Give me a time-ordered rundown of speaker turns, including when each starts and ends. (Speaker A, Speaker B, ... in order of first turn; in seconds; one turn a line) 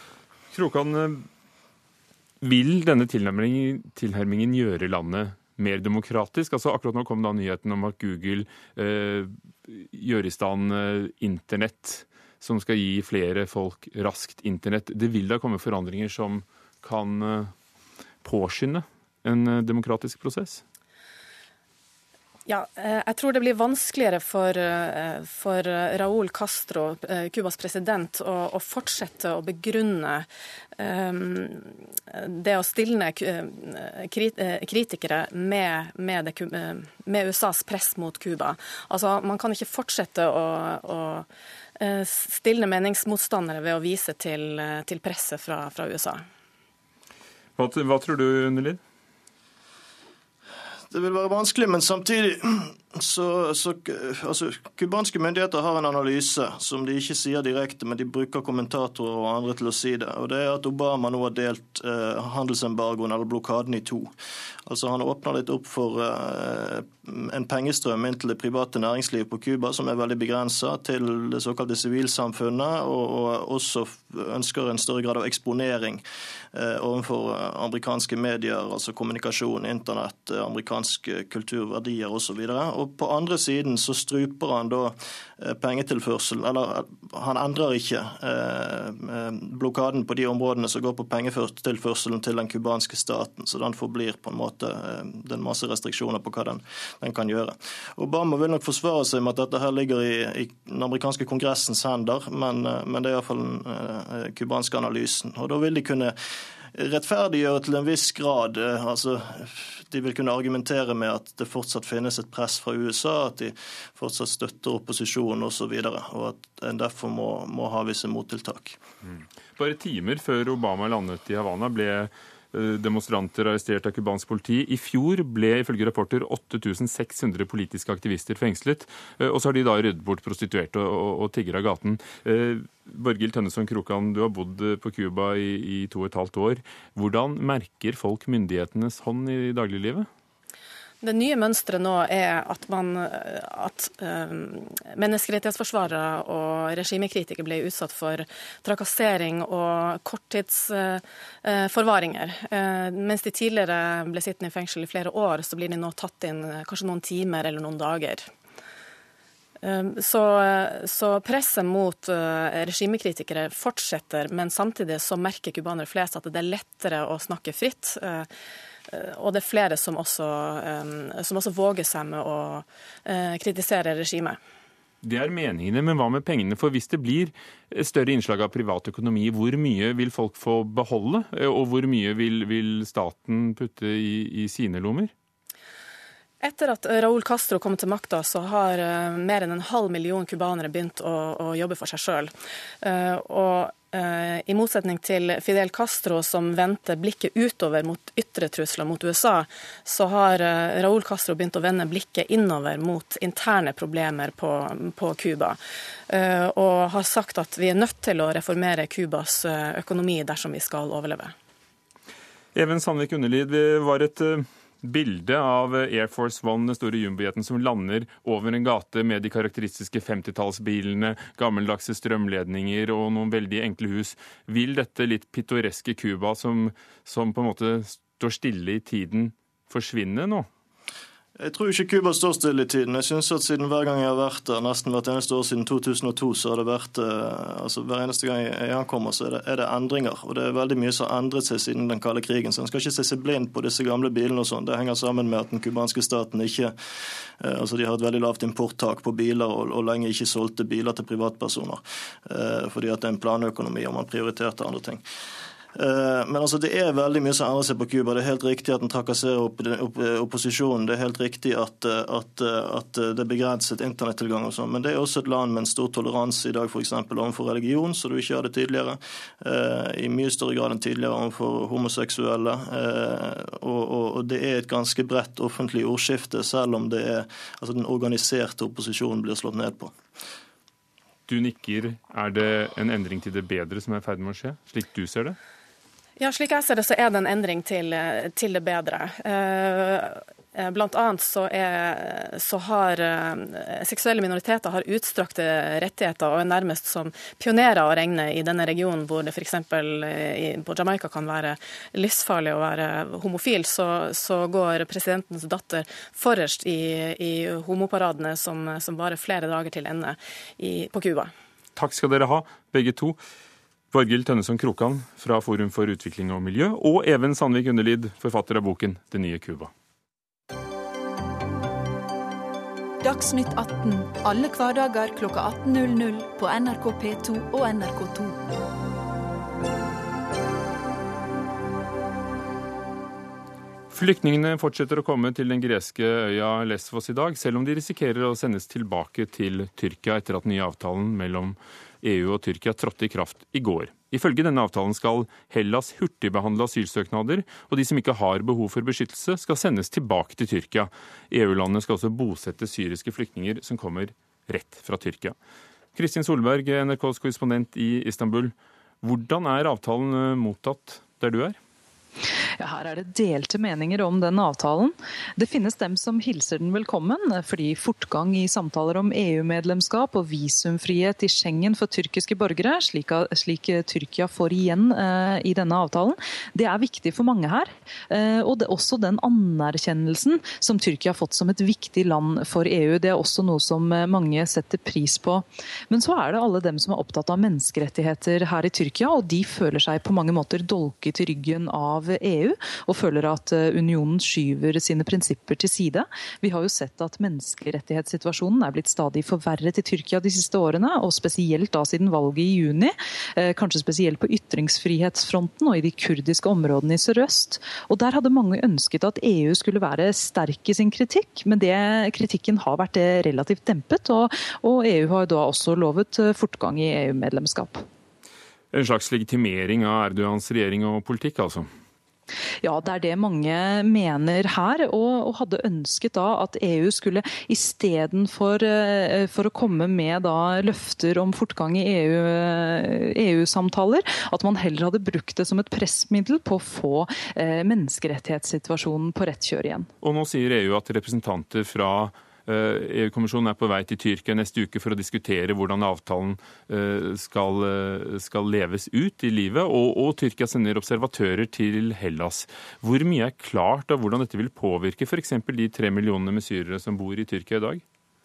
Speaker A: 0.5-1.3
Speaker A: 2.4-17.5
Speaker A: 18.2-20.6
Speaker B: 22.5-41.3
Speaker B: 41.8-46.2
Speaker A: 47.6-48.8
Speaker C: 50.9-64.1
Speaker C: 64.7-106.2
Speaker C: 106.7-118.8
Speaker A: 119.0-140.1
Speaker B: 141.0-158.3
Speaker B: 159.6-168.3
Speaker B: 168.9-174.4
Speaker A: 175.0-185.1
Speaker B: 186.4-205.6
Speaker B: 206.1-211.3
Speaker A: 212.5-230.5
Speaker C: 231.4-246.7
Speaker C: 247.4-255.0
Speaker C: 255.7-279.9
Speaker A: 281.3-285.4
Speaker B: 286.2-311.3
Speaker A: 311.8-313.2
Speaker A: 313.9-319.7
Speaker D: 323.0-328.4
Speaker A: 333.9-355.3
Speaker A: 355.9-361.6
Speaker E: 362.6-417.8
Speaker A: 418.7-421.7
Speaker E: 422.6-439.9
Speaker A: 440.0-457.8